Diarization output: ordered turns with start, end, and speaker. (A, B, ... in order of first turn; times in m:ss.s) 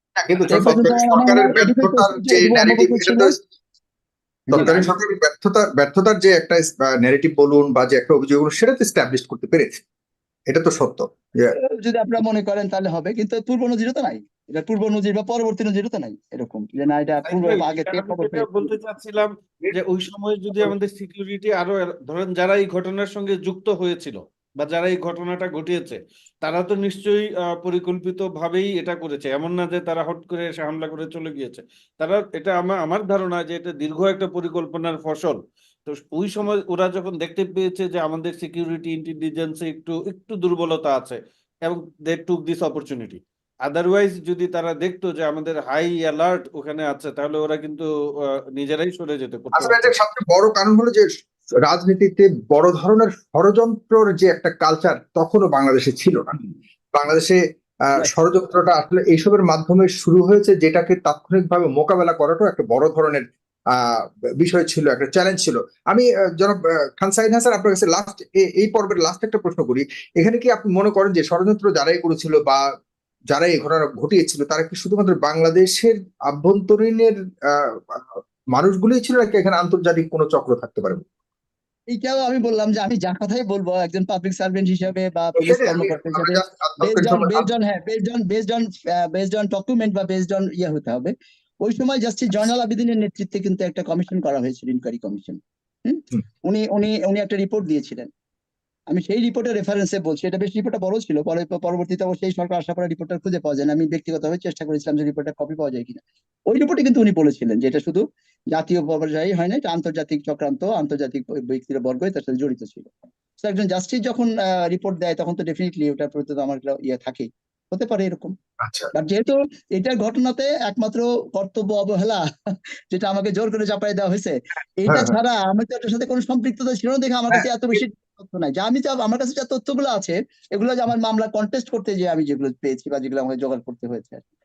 0:00.2-0:03.4 A
0:00.5-0:03.3 B
0:04.5-0:04.9 B
0:04.5-0:09.8 A
0:10.5-0:11.5 A
0:11.6-0:18.7 B
0:17.3-0:47.9 C
0:48.5-0:49.9 C
0:49.5-0:51.0 A
0:51.6-0:56.4 A
0:56.9-1:12.6 A
1:13.3-1:21.0 A
1:21.9-1:38.1 B
1:25.4-1:27.5 A
1:38.9-1:58.3 B
1:58.6-1:58.9 A
1:58.9-2:14.2 B
2:04.9-2:05.2 A
2:07.3-2:07.8 A